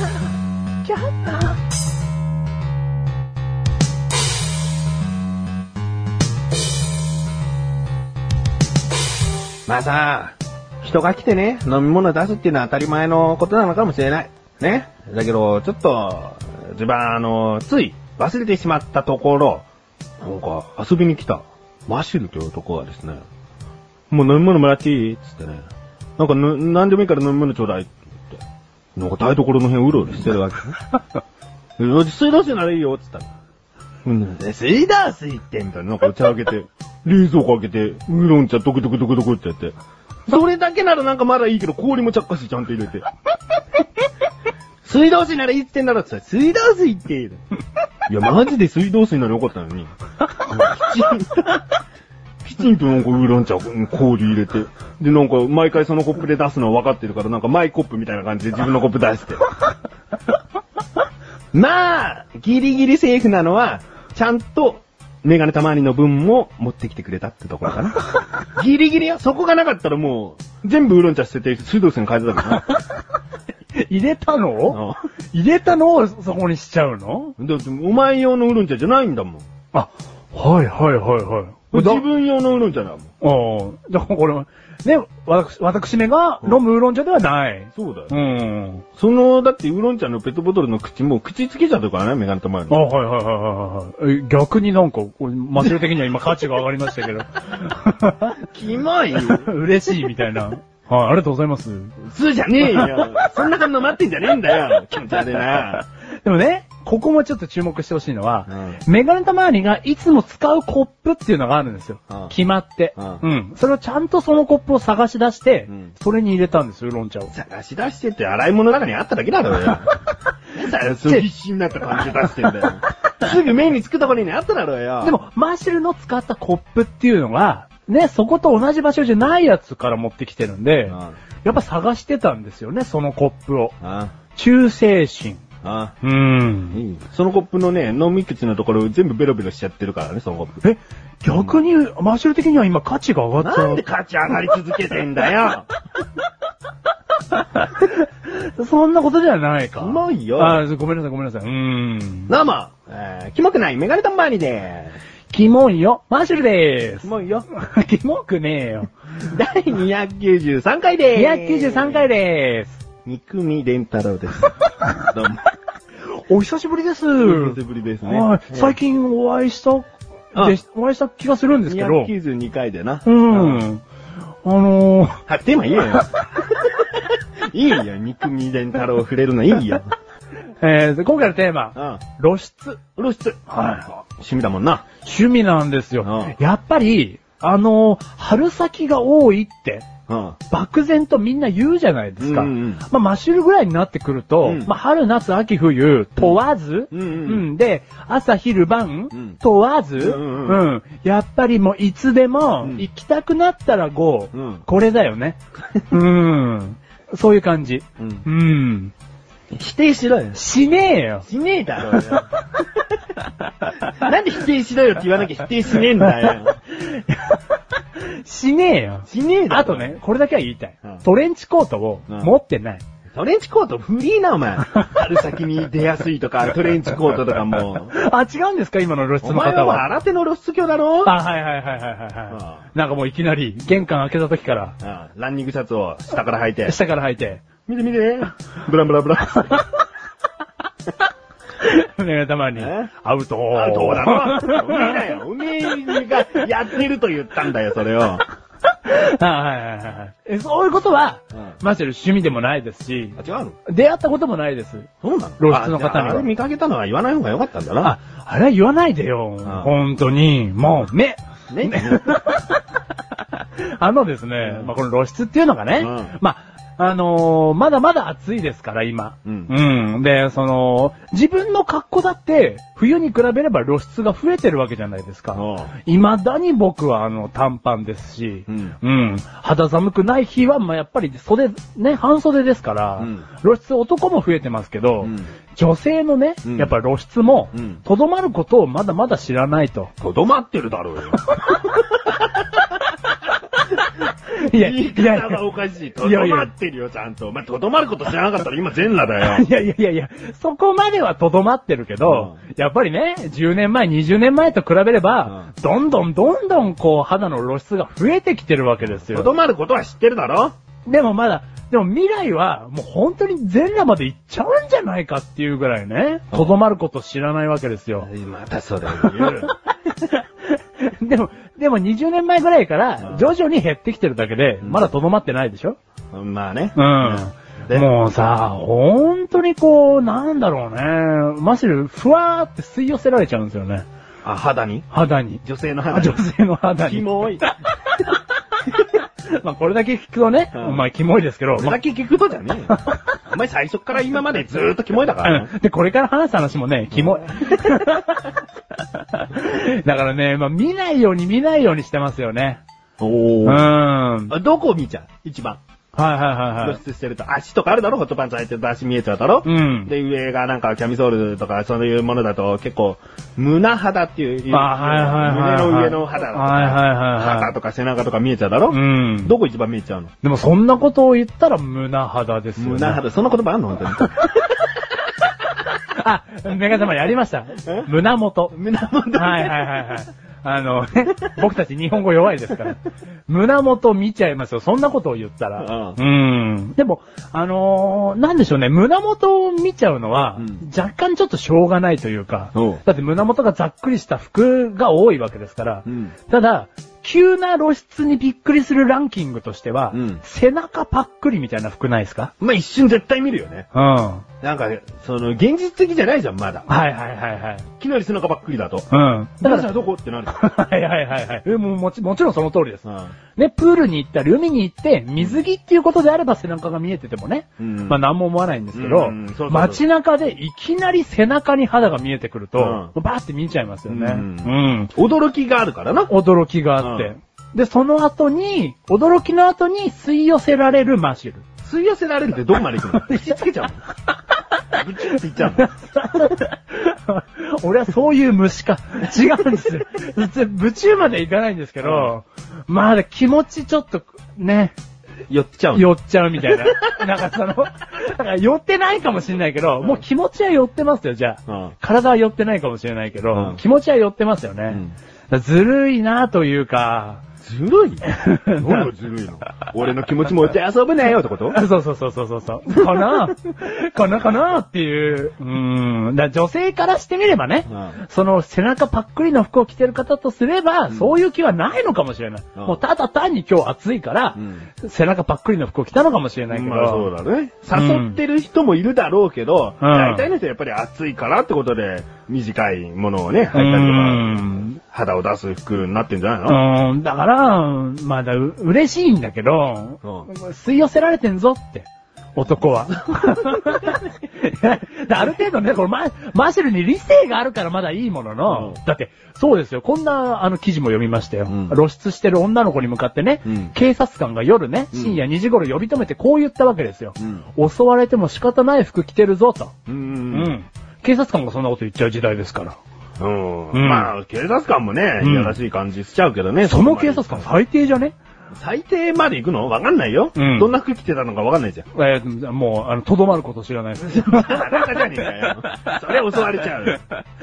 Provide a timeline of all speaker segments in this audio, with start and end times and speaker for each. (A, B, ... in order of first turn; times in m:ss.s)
0:00.8-0:01.6 A
0:09.6-0:19.6 B
0:20.2-0:23.2 B
0:24.1-0:25.6 B
0:26.2-0:28.4 B
0:29.0-0:30.8 B
0:31.8-0:33.3 B
0:34.0-0:39.7 B
0:40.3-0:43.0 B
0:44.8-0:47.4 B
0:48.1-0:51.6 B
0:52.4-0:59.4 B
1:01.5-1:12.7 B
1:13.7-1:14.8 A
1:14.7-1:15.0 B
1:15.3-1:17.3 A
1:17.4-1:19.4 B
1:19.7-1:22.0 A
1:21.7-1:23.1 B
1:23.2-1:28.8 A
1:27.7-1:28.1 B
1:29.0-1:32.8 B
1:32.7-1:38.4 A
1:38.5-1:39.5 B
1:39.2-1:42.0 A
1:42.0-1:45.8 B
1:42.6-1:43.0 A
1:46.2-1:57.3 A
1:48.5-1:48.8 B
1:57.3-2:00.0 B
2:00.5-2:05.2 B
2:05.0-2:13.8 A
2:10.9-2:11.2 B
2:13.8-2:14.1 B
2:14.3-2:15.4 A
2:15.6-2:15.9 B
2:16.0-2:16.8 A
2:16.7-2:20.6 B
2:20.6-2:23.8 A
2:21.3-2:21.6 B
2:23.4-2:25.7 B
2:27.3-2:32.3 A
2:29.8-2:30.6 B
2:32.3-2:35.0 B
2:35.3-2:38.9 A
2:37.0-2:37.5 B
2:39.3-2:42.1 B
2:41.1-2:42.8 A
2:43.0-2:45.4 B
2:46.3-2:52.1 A
2:47.2-2:48.8 B
2:51.6-2:53.6 B
2:53.0-2:53.8 A
2:54.4-2:55.2 A
2:55.3-2:56.9 B
2:57.5-2:59.9 B
3:00.6-3:02.8 A
3:01.8-3:02.0 B
3:03.0-3:04.8 B
3:03.5-3:03.9 A
3:05.0-3:09.9 A
3:06.0-3:06.4 B
3:10.1-3:10.4 B
3:10.5-3:25.4 A
3:12.2-3:12.8 B
3:14.4-3:14.7 B
3:16.9-3:17.5 B
3:20.0-3:20.6 B
3:24.3-3:24.6 B
3:25.9-3:28.9 A
3:28.0-3:28.2 B
3:29.5-3:30.4 B
3:30.3-3:31.2 A
3:31.2-3:32.8 B
3:33.9-3:36.6 B
3:36.2-3:42.8 A
3:39.1-3:40.0 B
3:42.1-3:42.4 B
3:43.1-3:47.9 B
3:47.7-3:49.8 A
3:49.2-3:51.1 B
3:51.0-3:54.8 A
3:52.3-3:52.6 B
3:54.8-3:56.7 B
3:56.6-3:57.4 A
3:57.6-3:59.6 B
4:01.6-4:05.1 A
4:02.6-4:02.9 B
4:03.5-4:08.2 B
4:08.8-4:16.3 A
4:13.2-4:13.6 B
4:15.0-4:17.9 B
4:17.8-4:22.6 A
4:19.4-4:19.7 B
4:21.5-4:22.2 B
4:23.4-4:49.9 A
4:24.4-4:24.7 B
4:25.8-4:26.2 B
4:29.2-4:29.5 B
4:35.3-4:35.7 B
4:38.5-4:38.8 B
4:43.0-4:43.2 B
4:45.0-4:45.3 B
4:46.4-4:46.7 B
4:47.5-4:47.8 B
4:50.0-4:52.6 B
4:54.3-4:55.4 A
4:54.4-4:59.5 B
4:56.0-4:56.5 A
4:59.2-5:09.3 A
5:02.0-5:02.4 B
5:09.0-5:10.5 B
5:10.8-5:18.1 A
5:16.3-5:16.6 B
5:18.0-5:19.5 B
5:19.0-5:25.8 A
5:23.0-5:23.3 B
5:26.1-5:27.9 B
5:26.7-5:33.8 A
5:34.2-5:34.9 B
5:34.9-5:38.0 A
5:35.4-5:36.2 B
5:36.8-5:37.4 B
5:38.7-5:41.8 A
5:40.5-5:40.8 B
5:41.6-5:45.5 B
5:42.7-5:43.0 A
5:45.2-5:52.6 A
5:47.0-5:47.7 B
5:53.0-5:53.7 B
5:53.4-5:54.3 A
5:54.3-5:55.6 B
5:55.9-5:56.8 A
5:56.6-6:10.1 B
5:59.4-5:59.9 A
6:04.5-6:07.5 A
6:08.7-6:09.3 A
6:10.2-6:13.0 A
6:12.6-6:14.3 B
6:15.9-6:18.5 A
6:18.5-6:19.7 B
6:19.1-6:42.3 A
6:25.6-6:26.0 B
6:30.4-6:30.6 B
6:32.5-6:32.8 B
6:35.8-6:36.1 B
6:39.9-6:40.2 B
6:42.4-6:43.7 B
6:43.7-6:44.2 A
6:44.4-6:46.7 B
6:46.7-6:47.7 A
6:47.8-6:48.9 B
6:48.9-6:49.7 A
6:49.4-6:50.4 B
6:50.3-7:04.9 A
6:52.8-6:53.1 B
6:57.6-6:58.0 B
6:58.7-6:59.8 B
7:02.6-7:02.9 B
7:03.9-7:06.1 B
7:06.1-7:11.4 A
7:06.8-7:07.1 B
7:11.6-7:13.8 B
7:12.8-7:13.4 A
7:14.7-7:15.7 B
7:15.4-7:24.7 A
7:21.8-7:22.1 B
7:25.3-7:25.9 B
7:25.7-7:37.2 A
7:26.4-7:27.0 B
7:31.5-7:31.7 B
7:33.3-7:33.6 B
7:34.7-7:34.9 B
7:37.4-7:41.6 B
7:38.1-7:38.8 A
7:41.5-7:57.1 A
7:42.7-7:43.3 B
7:47.7-7:48.0 B
7:50.9-7:51.2 B
7:52.6-7:52.8 B
7:54.4-7:54.7 B
7:56.5-8:06.6 B
7:57.7-7:58.2 A
7:59.8-8:00.3 A
8:03.5-8:04.8 A
8:06.5-8:29.7 A
8:10.0-8:10.3 B
8:18.5-8:18.8 B
8:21.5-8:21.8 B
8:23.5-8:23.7 B
8:24.9-8:25.2 B
8:29.9-8:30.6 B
8:30.3-8:32.8 A
8:33.2-8:37.5 B
8:33.7-8:34.1 A
8:35.2-8:35.6 A
8:36.6-8:38.1 A
8:38.6-8:41.8 B
8:40.4-8:40.7 A
8:41.9-8:44.9 A
8:44.0-8:47.0 B